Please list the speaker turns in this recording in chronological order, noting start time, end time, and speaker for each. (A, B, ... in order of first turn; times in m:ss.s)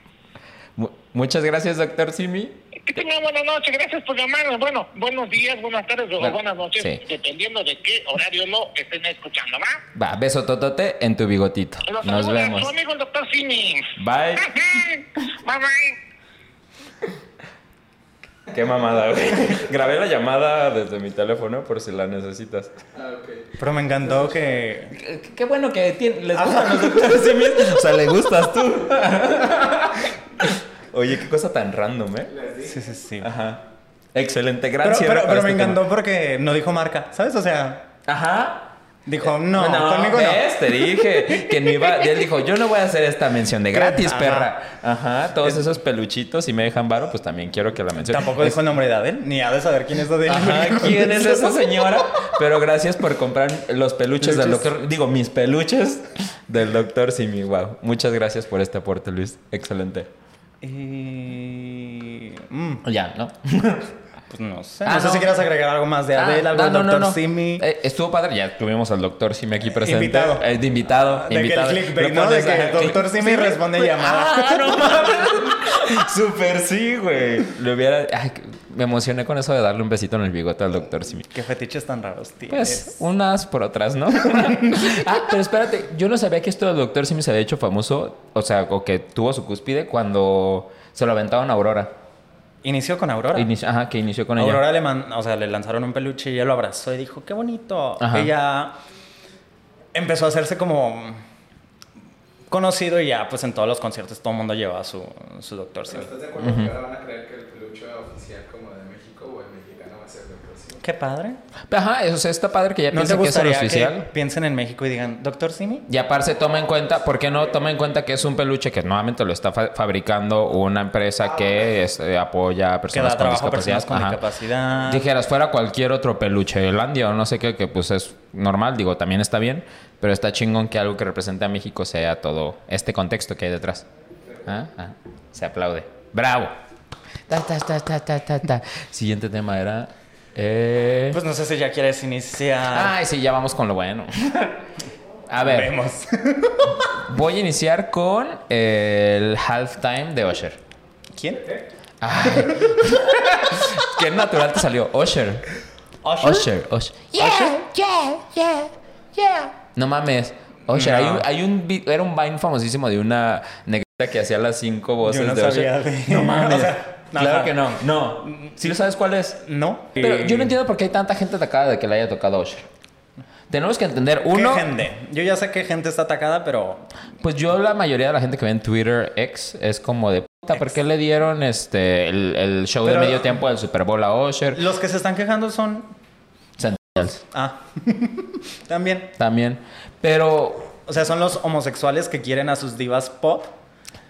0:00.8-0:02.6 A
0:02.8-0:09.8 B
0:06.2-0:07.0 A
0:09.9-0:12.7 A
0:11.8-0:16.0 B
0:14.0-0:14.5 A
0:18.5-0:22.7 A
0:22.9-0:24.3 C
0:23.6-0:25.0 D
0:24.9-0:32.3 A
0:26.3-0:27.5 D
0:32.3-0:32.8 C
0:32.6-0:33.3 D
0:33.2-0:33.6 A
0:34.1-0:35.8 A
0:34.8-0:37.9 D
0:38.0-0:48.6 A
0:39.0-0:41.0 D
0:43.7-0:44.5 D
0:48.0-0:51.7 D
0:50.2-1:00.1 A
0:54.2-0:54.7 D
1:00.6-1:02.8 D
1:02.8-1:03.9 A
1:04.3-1:07.6 D
1:04.8-1:05.4 A
1:06.1-1:21.3 A
1:09.7-1:10.5 D
1:11.1-1:15.2 D
1:21.3-1:23.0 D
1:22.5-1:31.9 A
1:24.3-1:25.0 D
1:32.6-1:33.5 D
1:33.3-1:34.6 A
1:34.4-1:38.8 D
1:38.0-1:38.3 A
1:39.9-1:41.2 D
1:42.5-1:46.1 D
1:45.9-1:50.8 C
1:46.4-1:46.7 A
1:50.8-1:51.4 D
1:51.7-1:54.1 A
1:52.9-1:55.9 D
1:55.9-2:04.2 A
2:02.9-2:05.1 D
2:04.8-2:13.8 A
2:14.4-2:16.5 A
2:17.3-2:21.2 A
2:21.1-2:23.0 D
2:22.7-2:24.6 A
2:25.3-2:25.7 A
2:25.4-2:26.9 D
2:26.8-2:30.6 A
2:31.1-2:31.6 D
2:32.0-2:35.5 A
2:32.3-2:32.8 D
2:36.0-2:36.5 D
2:36.2-2:49.4 A
2:37.1-2:37.6 D
2:40.7-2:41.3 D
2:45.0-2:47.7 D
2:48.2-2:48.7 D
2:49.4-2:50.6 D
2:49.9-2:52.7 A
2:53.5-2:54.7 A
2:54.3-2:56.9 D
2:57.2-3:04.6 A
3:02.8-3:03.4 D
3:04.5-3:05.9 D
3:06.6-3:07.2 A
3:07.2-3:09.1 D
3:09.2-3:10.7 A
3:10.8-3:13.6 D